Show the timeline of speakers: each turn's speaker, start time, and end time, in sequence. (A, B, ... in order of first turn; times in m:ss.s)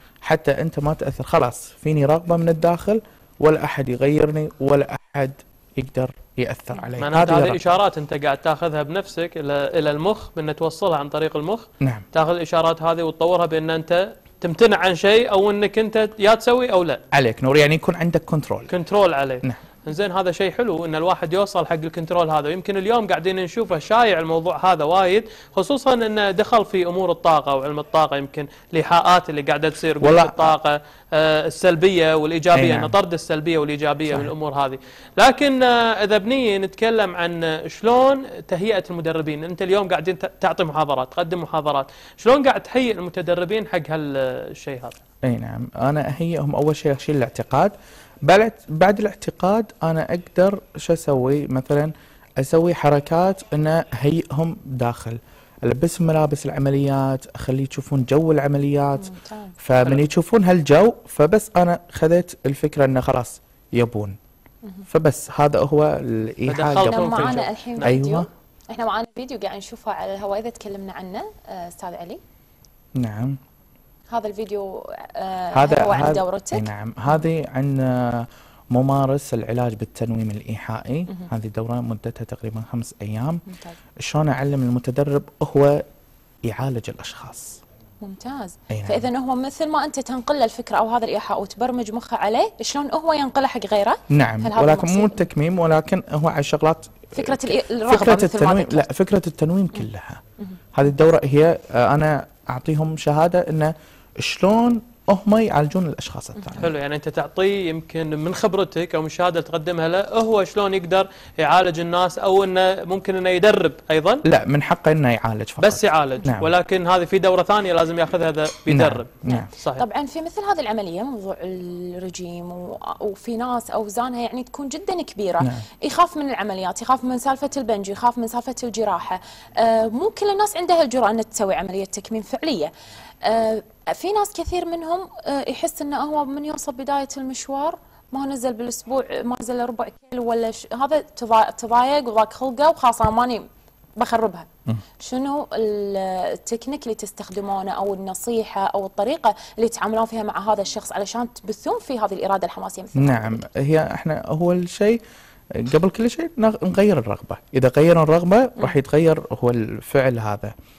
0:00.2-0:07.6 A
0:07.0-0:17.0 B
0:11.8-0:12.0 A
0:17.1-0:18.7 A
0:18.7-0:44.9 B
0:30.0-0:30.5 A
0:32.5-0:32.9 A
0:34.1-0:34.3 A
0:45.2-0:47.7 A
0:48.2-1:04.2 A
0:59.0-0:59.6 C
1:04.9-1:08.3 A
1:06.5-1:07.9 B
1:06.8-1:12.2 C
1:13.0-1:13.4 A
1:14.1-1:17.2 C
1:15.5-1:23.4 A
1:23.5-1:23.8 C
1:24.0-1:25.8 A
1:26.4-1:27.6 A
1:28.0-1:35.2 C
1:28.7-1:29.1 A
1:34.1-1:40.2 A
1:37.1-1:38.9 C
1:40.7-1:46.7 A
1:46.4-1:46.6 C
1:46.6-1:54.2 B
1:54.2-1:56.5 A
1:55.6-1:59.8 B
1:58.7-1:59.5 A
1:59.2-2:12.7 C
2:05.4-2:05.6 A
2:13.2-2:23.4 C
2:24.0-2:24.5 C
2:25.0-2:33.4 C
2:32.9-2:35.0 A
2:35.5-2:40.5 A